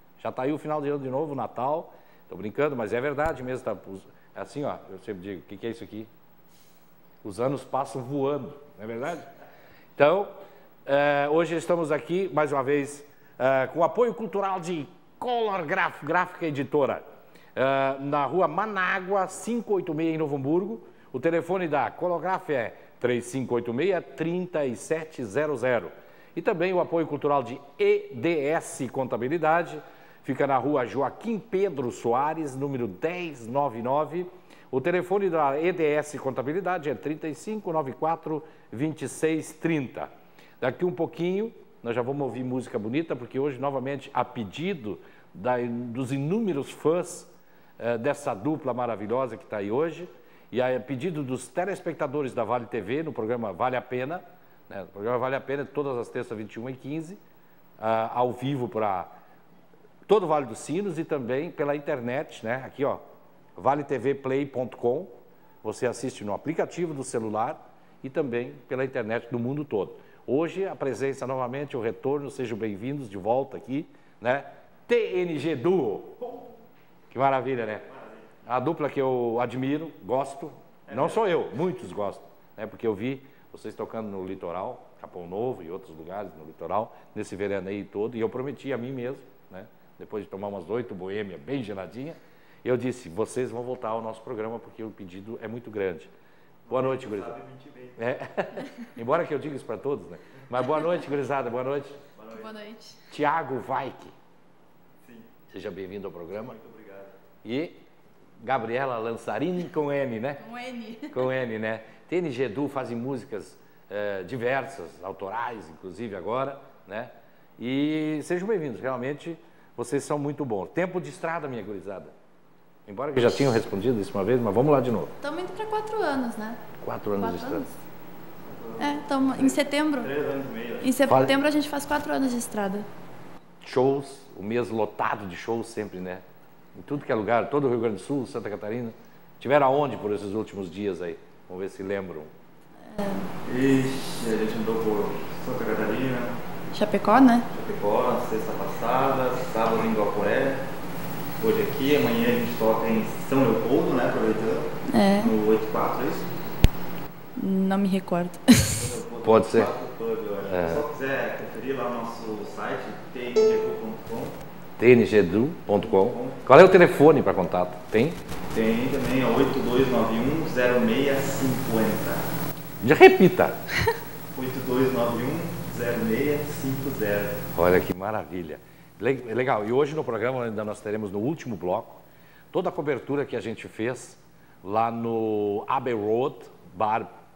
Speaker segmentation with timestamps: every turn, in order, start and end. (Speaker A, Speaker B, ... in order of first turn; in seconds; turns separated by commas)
Speaker A: 0.2-6.1, Speaker A: 7.2-9.3, Speaker A: 10.0-17.0, Speaker A: 17.6-57.2, Speaker A: 57.8-59.1, Speaker A: 60.1-63.0, Speaker A: 63.6-76.3, Speaker A: 77.1-77.8, Speaker B: 77.8-78.2, Speaker A: 78.5-96.1, Speaker B: 80.9-81.2, Speaker B: 96.7-98.0, Speaker A: 96.7-97.4, Speaker A: 98.0-102.0, Speaker B: 102.2-102.5, Speaker C: 102.3-103.0, Speaker A: 103.1-104.1, Speaker B: 105.0-105.3, Speaker A: 105.5-106.6, Speaker B: 106.3-107.2, Speaker A: 107.4-107.8, Speaker A: 108.4-110.5, Speaker C: 110.4-111.2, Speaker A: 111.1-122.1, Speaker A: 122.9-125.1, Speaker C: 125.2-126.6, Speaker A: 126.8-127.7, Speaker C: 127.1-127.8, Speaker B: 128.5-131.0, Speaker C: 128.8-130.1, Speaker C: 130.8-132.9, Speaker A: 131.1-131.3, Speaker A: 133.6-136.2, Speaker A: 136.8-142.3, Speaker C: 142.9-143.3, Speaker B: 143.4-146.3, Speaker C: 146.7-147.5, Speaker B: 147.5-150.6, Speaker B: 151.4-156.3, Speaker C: 154.9-155.3, Speaker C: 157.4-158.8, Speaker B: 158.8-164.3, Speaker A: 159.2-159.7, Speaker A: 160.5-160.9, Speaker A: 164.8-168.2, Speaker B: 165.8-166.4, Speaker B: 168.5-172.3, Speaker A: 172.8-173.6, Speaker B: 174.3-177.4, Speaker A: 177.6-187.1